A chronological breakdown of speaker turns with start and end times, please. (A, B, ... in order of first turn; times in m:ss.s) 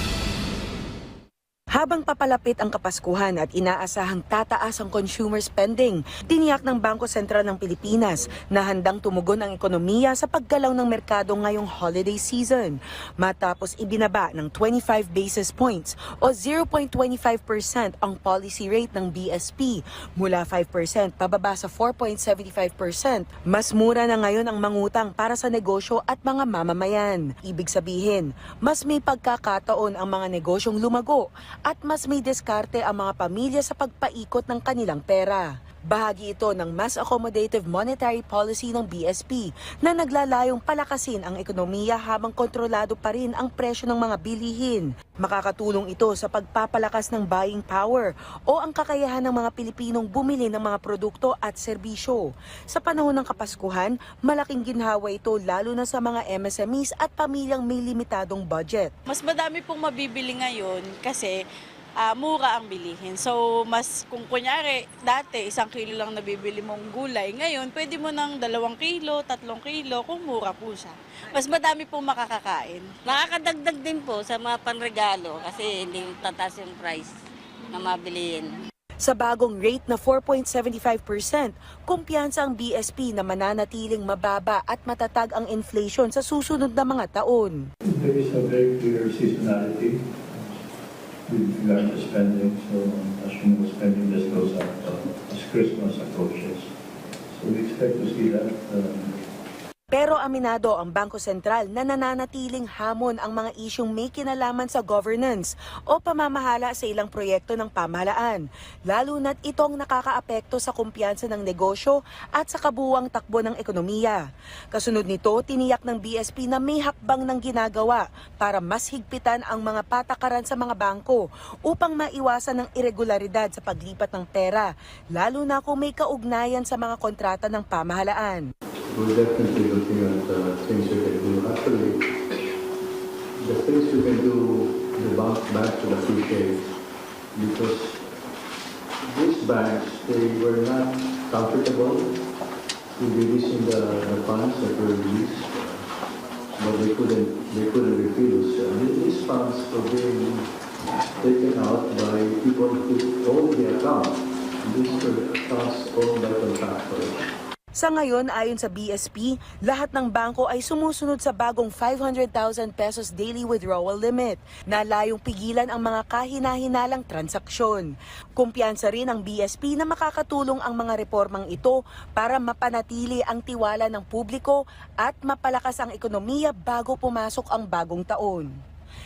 0:01.7-0:58.9 A
0:59.1-1:01.4 B
1:02.0-1:13.0 B
1:13.0-1:17.1 C
1:17.7-1:18.6 C
1:19.0-1:27.6 A
1:27.9-1:30.5 D
1:31.3-1:36.7 D
1:37.3-1:39.1 D
1:39.9-1:54.2 A
1:54.7-2:08.4 A
2:08.9-2:12.0 E
2:13.4-2:16.7 E
2:17.3-2:18.0 E
2:19.1-2:22.1 E
2:23.0-2:25.9 E
2:26.6-2:30.5 E
2:31.2-2:37.2 E
2:37.8-2:58.5 A